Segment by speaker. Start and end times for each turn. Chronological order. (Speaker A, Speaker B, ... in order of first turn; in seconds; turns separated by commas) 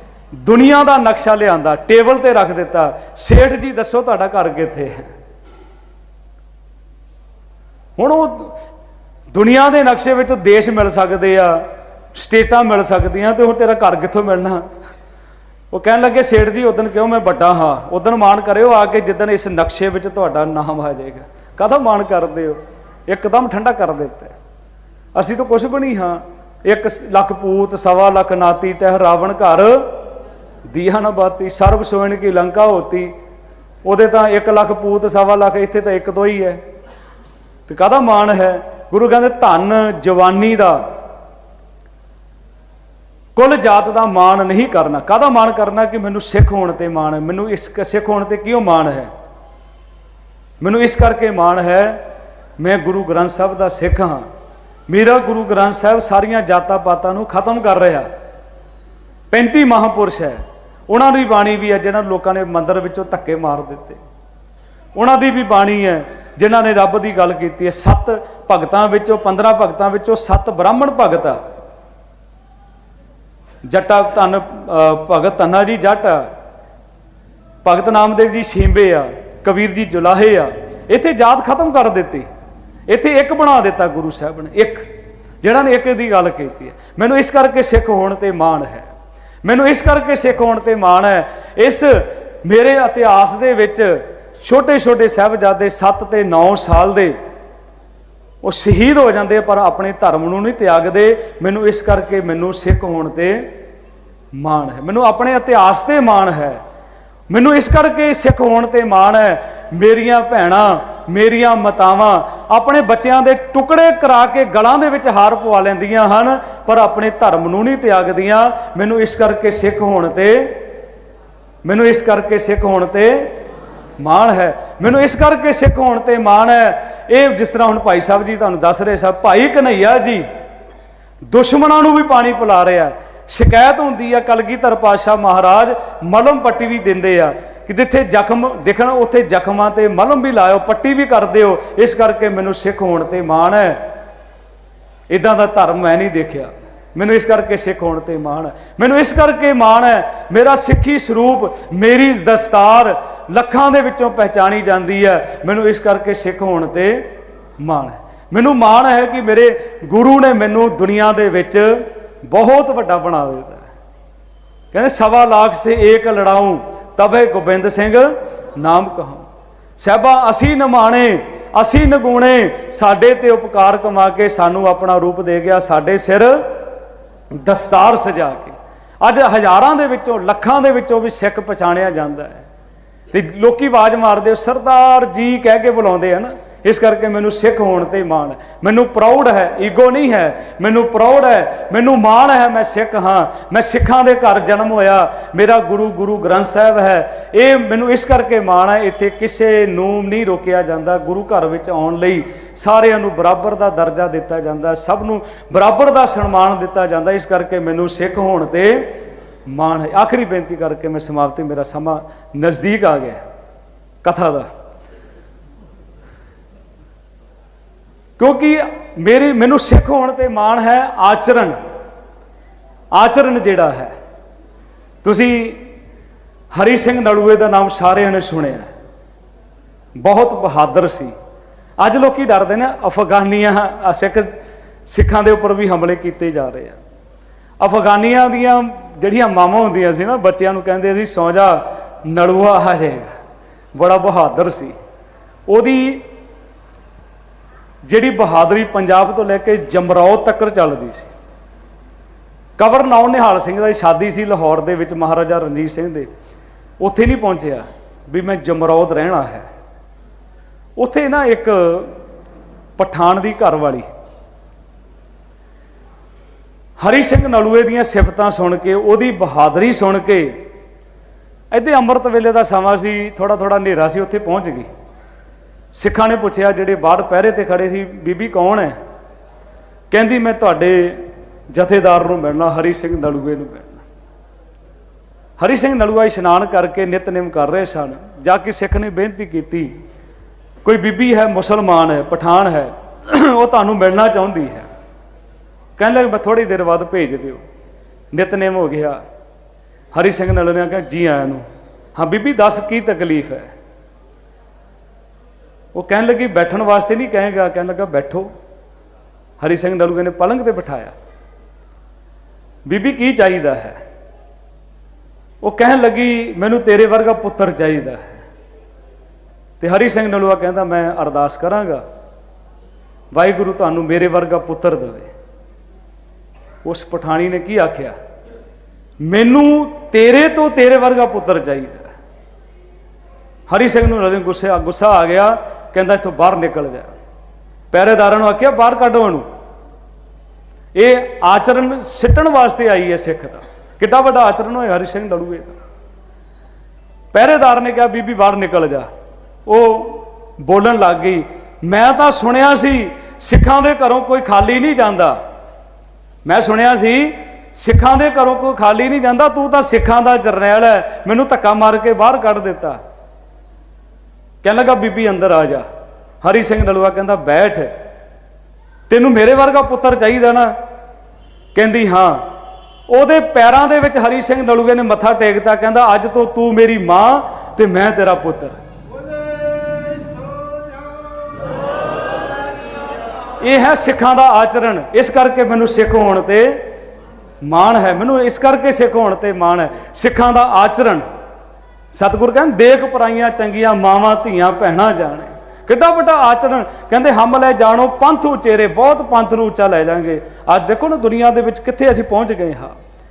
Speaker A: 0.3-5.1, Speaker A: 8.0-8.5, Speaker A: 9.3-14.7, Speaker A: 15.7-24.3, Speaker A: 25.1-29.9, Speaker A: 30.7-33.1, Speaker A: 33.8-36.6, Speaker A: 37.7-40.8, Speaker A: 43.3-49.1, Speaker A: 50.6-52.0, Speaker A: 52.6-54.3, Speaker A: 54.9-58.1, Speaker A: 59.3-64.0, Speaker A: 65.0-71.4, Speaker A: 73.7-76.3, Speaker A: 77.6-82.3, Speaker A: 82.9-84.9, Speaker A: 85.4-88.9, Speaker A: 89.4-97.2, Speaker A: 98.4-103.5, Speaker A: 104.3-106.6, Speaker A: 107.3-120.6, Speaker A: 121.6-123.3, Speaker A: 124.0-130.2, Speaker A: 131.3-143.8, Speaker A: 145.1-157.1, Speaker A: 157.6-163.7, Speaker A: 164.7-169.3, Speaker A: 169.8-176.5, Speaker A: 177.4-182.4, Speaker A: 183.1-208.9, Speaker A: 209.5-213.2, Speaker A: 214.0-214.5, Speaker A: 218.2-221.6, Speaker A: 222.9-223.9, Speaker A: 225.0-225.7, Speaker A: 226.5-228.7, Speaker A: 230.0-231.1, Speaker A: 231.8-236.8, Speaker A: 237.6-243.1, Speaker A: 243.8-244.8, Speaker A: 245.5-246.0, Speaker A: 247.8-251.1, Speaker A: 252.6-256.1, Speaker A: 256.8-259.5, Speaker A: 260.8-261.9, Speaker A: 262.8-263.9, Speaker A: 266.8-270.4, Speaker A: 271.5-274.7, Speaker A: 275.7-278.8, Speaker A: 279.9-283.8, Speaker A: 285.4-289.7, Speaker A: 290.6-294.7, Speaker A: 295.8-297.4, Speaker A: 298.1-299.0, Speaker A: 299.9-303.5, Speaker A: 305.7-308.3, Speaker A: 309.4-310.9, Speaker A: 312.6-313.8, Speaker A: 315.4-318.2, Speaker A: 319.6-321.8, Speaker A: 323.1-325.1, Speaker A: 326.6-327.9, Speaker A: 329.0-331.9, Speaker A: 333.5-336.9, Speaker A: 337.7-339.3, Speaker A: 340.8-345.6, Speaker A: 347.1-348.9, Speaker A: 349.5-355.2, Speaker A: 356.2-362.8, Speaker A: 364.4-365.7, Speaker A: 366.2-367.7, Speaker A: 368.9-370.5, Speaker A: 371.5-372.2, Speaker A: 372.9-378.6, Speaker A: 383.4-386.7, Speaker A: 387.4-391.0, Speaker A: 391.9-402.8